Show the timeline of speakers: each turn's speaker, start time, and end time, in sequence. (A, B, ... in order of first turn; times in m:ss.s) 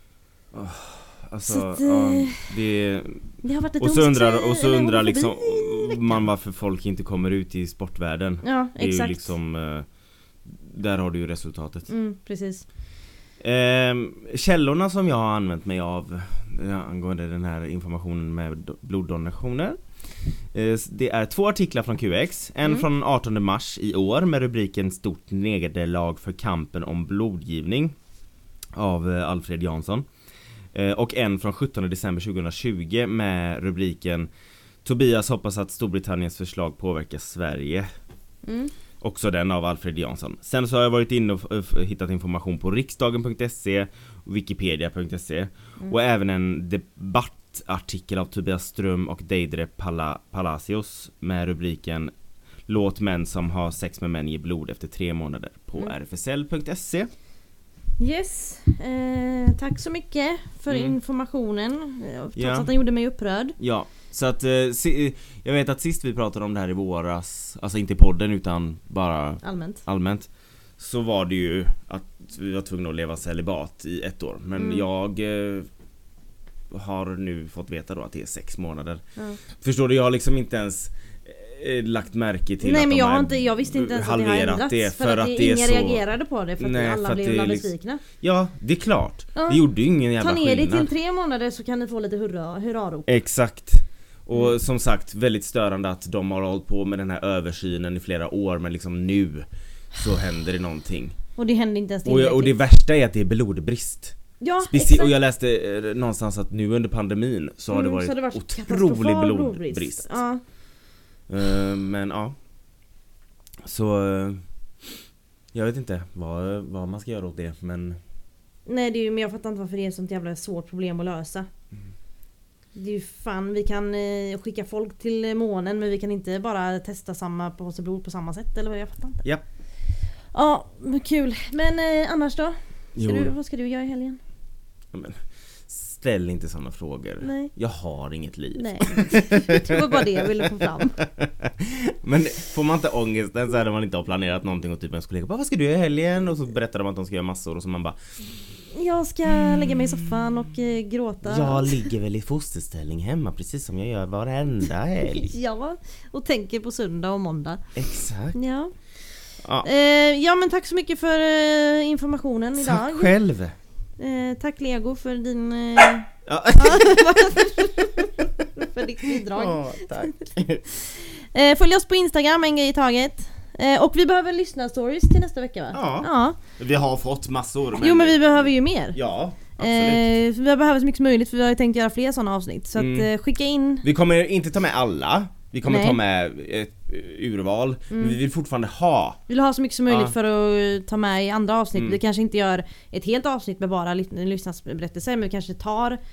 0:00.5-0:03.3 A
0:01.5-0:02.5 B
0:03.4-0:06.2 B
0:03.8-0:09.9 A
0:08.4-0:09.3 B
0:10.6-0:11.9 A
0:11.9-0:12.6 B
0:13.4-0:19.8 A
0:20.5-0:28.0 A
0:28.8-0:30.0 A
0:30.7-0:34.3 A
0:34.8-0:37.9 A
0:38.4-0:38.7 B
0:39.0-0:52.1 A
0:52.7-0:57.1 A
0:58.0-1:03.6 B
1:00.7-1:01.0 A
1:02.4-1:02.7 A
1:03.6-1:15.7 A
1:09.4-1:09.8 B
1:14.6-1:14.8 B
1:16.7-1:19.0 A
1:19.6-1:26.0 A
1:22.6-1:28.0 B
1:26.6-1:27.7 A
1:28.2-1:30.9 A
1:29.4-1:29.6 B
1:30.2-1:33.1 B
1:33.1-1:41.2 A
1:41.4-1:42.5 B
1:42.0-1:50.2 A
1:44.4-1:45.1 B
1:47.7-1:50.4 B
1:51.3-1:52.4 A
1:53.6-1:54.4 A
1:55.5-1:58.0 A
1:58.7-2:01.5 B
2:02.8-2:09.2 B
2:10.3-2:14.2 B
2:13.0-2:13.3 A
2:14.9-2:28.0 A
2:17.2-2:17.5 B
2:18.6-2:21.0 B
2:28.7-2:31.9 B
2:31.2-2:35.3 A
2:35.0-2:37.6 B
2:37.8-2:38.4 A
2:38.3-2:38.7 B
2:39.4-2:39.7 A
2:39.6-2:43.1 B
2:42.6-2:43.6 A
2:44.0-2:50.1 B
2:46.3-2:47.5 A
2:49.0-2:50.6 A
2:50.7-2:56.4 B
2:55.7-3:00.1 A
2:57.8-2:59.0 B
2:59.6-3:03.9 B
3:02.8-3:03.1 A
3:03.8-3:09.2 A
3:05.6-3:06.0 B
3:07.9-3:08.2 B
3:09.3-3:16.0 B
3:09.9-3:10.1 A